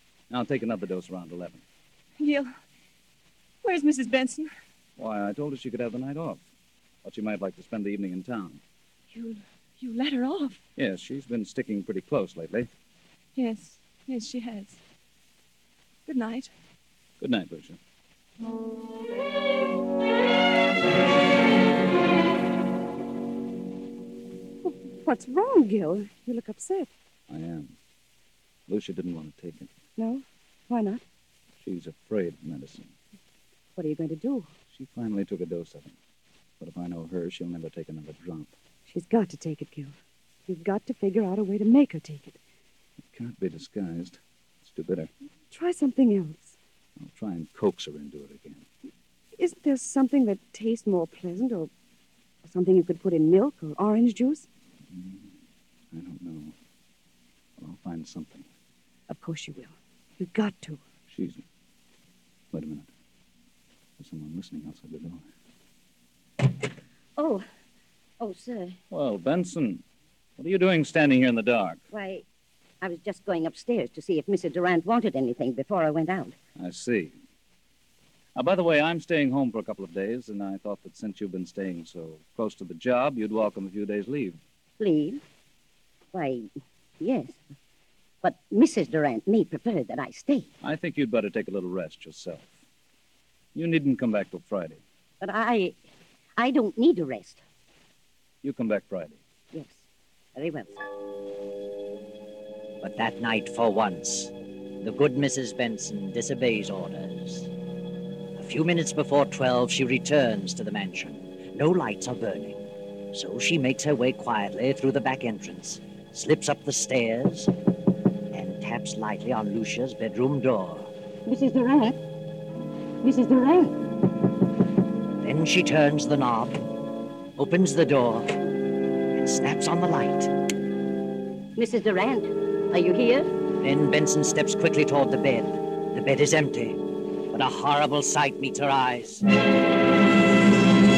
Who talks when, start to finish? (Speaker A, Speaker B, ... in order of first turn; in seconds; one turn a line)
Speaker A: 0.3-1.6
Speaker B: 2.2-2.5
Speaker B: 3.6-4.5
Speaker A: 5.0-6.4
Speaker A: 7.0-8.6
Speaker B: 9.1-10.6
Speaker A: 10.8-12.7
Speaker B: 13.3-14.8
Speaker B: 16.1-16.5
Speaker A: 17.2-17.8
Speaker C: 24.6-26.9
Speaker A: 27.3-27.8
Speaker A: 28.7-29.7
Speaker C: 30.0-31.0
Speaker A: 31.6-32.9
Speaker C: 33.8-34.5
Speaker A: 34.7-36.0
Speaker A: 36.6-38.5
Speaker C: 38.9-42.4
Speaker A: 43.1-45.1
Speaker C: 45.5-46.6
Speaker A: 47.0-48.6
Speaker C: 49.4-51.7
Speaker C: 52.4-54.5
Speaker A: 54.9-55.2
Speaker A: 55.9-56.5
Speaker A: 57.6-58.5
Speaker C: 59.1-60.8
Speaker A: 61.1-61.4
Speaker A: 62.5-62.9
Speaker A: 64.0-65.2
Speaker D: 67.2-67.5
Speaker D: 68.2-68.8
Speaker A: 68.9-69.8
Speaker A: 70.4-71.8
Speaker D: 71.9-72.2
Speaker D: 72.8-76.3
Speaker A: 76.6-77.1
Speaker A: 78.3-84.4
Speaker D: 84.8-85.2
Speaker D: 86.1-86.5
Speaker D: 87.0-87.4
Speaker D: 88.2-90.5
Speaker A: 90.6-92.5
Speaker A: 93.5-94.8
Speaker D: 95.2-95.8
Speaker D: 96.4-97.4
Speaker A: 98.4-99.2
Speaker D: 99.5-99.8
Speaker D: 100.4-100.8
Speaker E: 102.8-107.5
Speaker E: 108.4-117.5
Speaker E: 118.3-120.9
Speaker D: 121.3-122.0
Speaker D: 123.0-123.8
Speaker E: 125.2-126.7
Speaker E: 127.4-128.3
Speaker E: 129.1-130.3
Speaker D: 131.6-133.3
Speaker E: 133.6-139.2